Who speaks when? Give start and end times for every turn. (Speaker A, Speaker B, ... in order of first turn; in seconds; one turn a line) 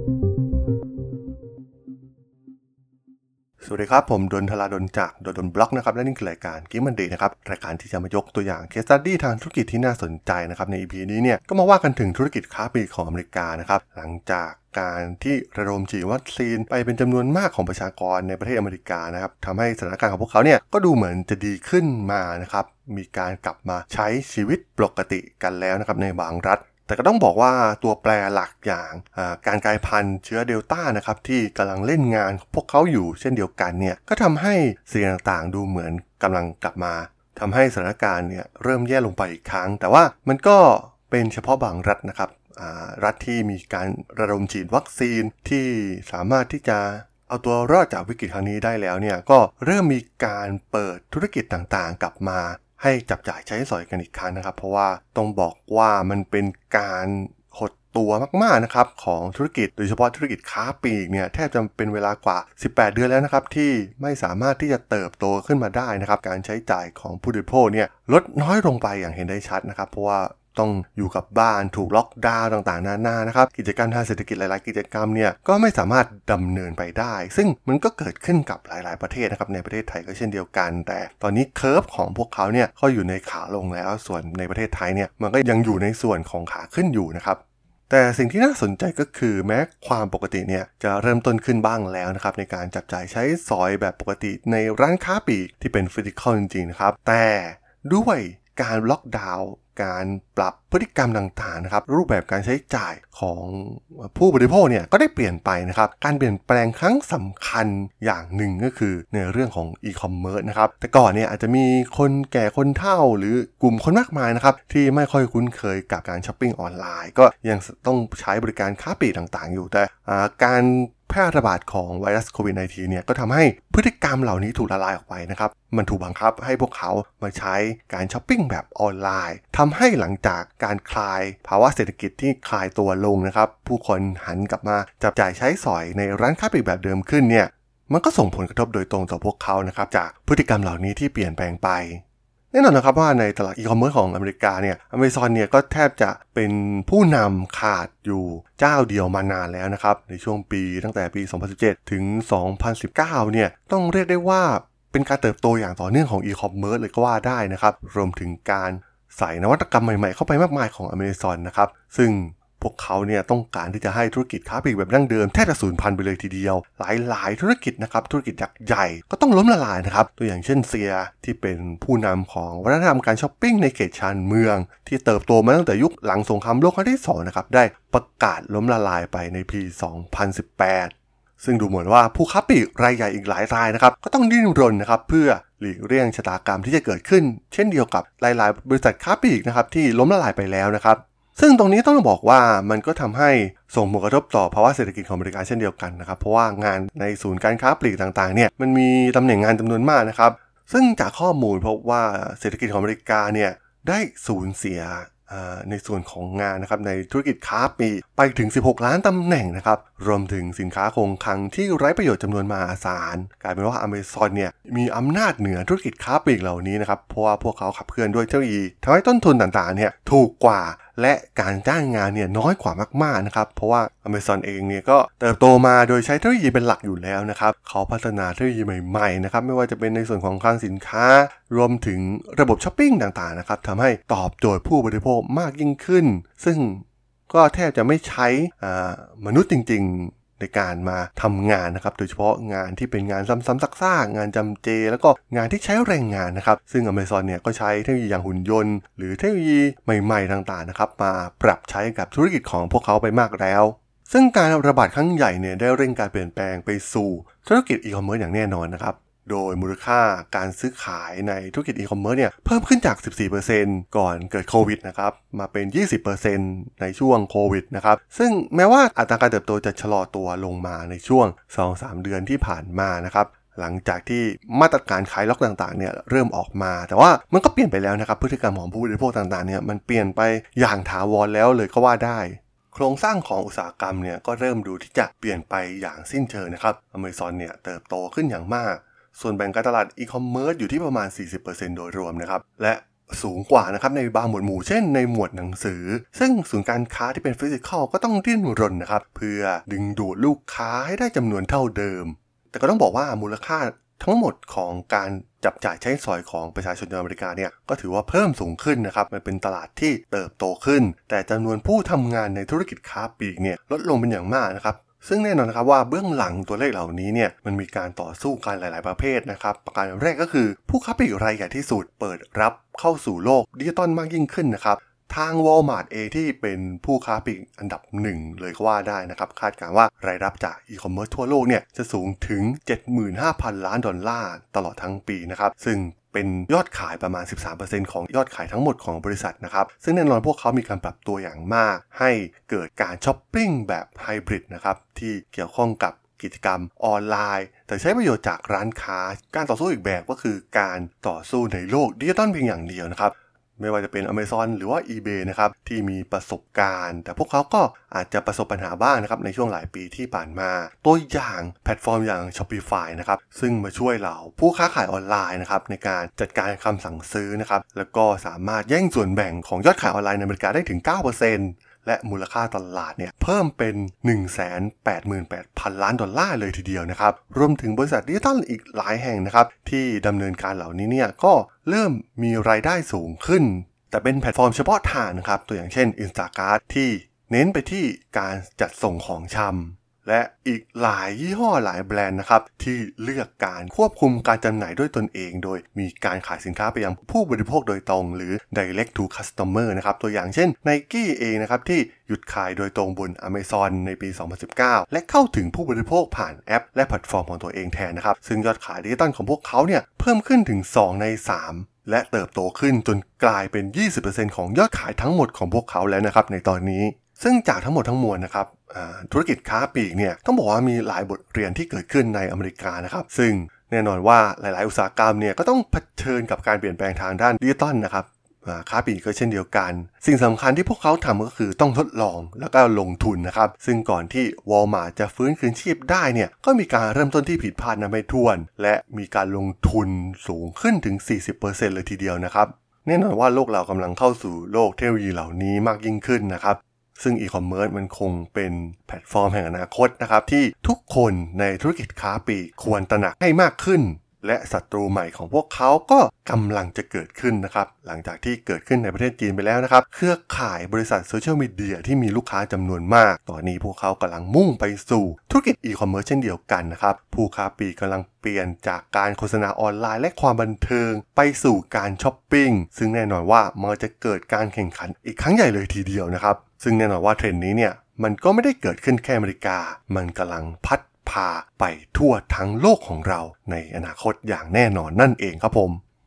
Speaker A: 3.6-485.8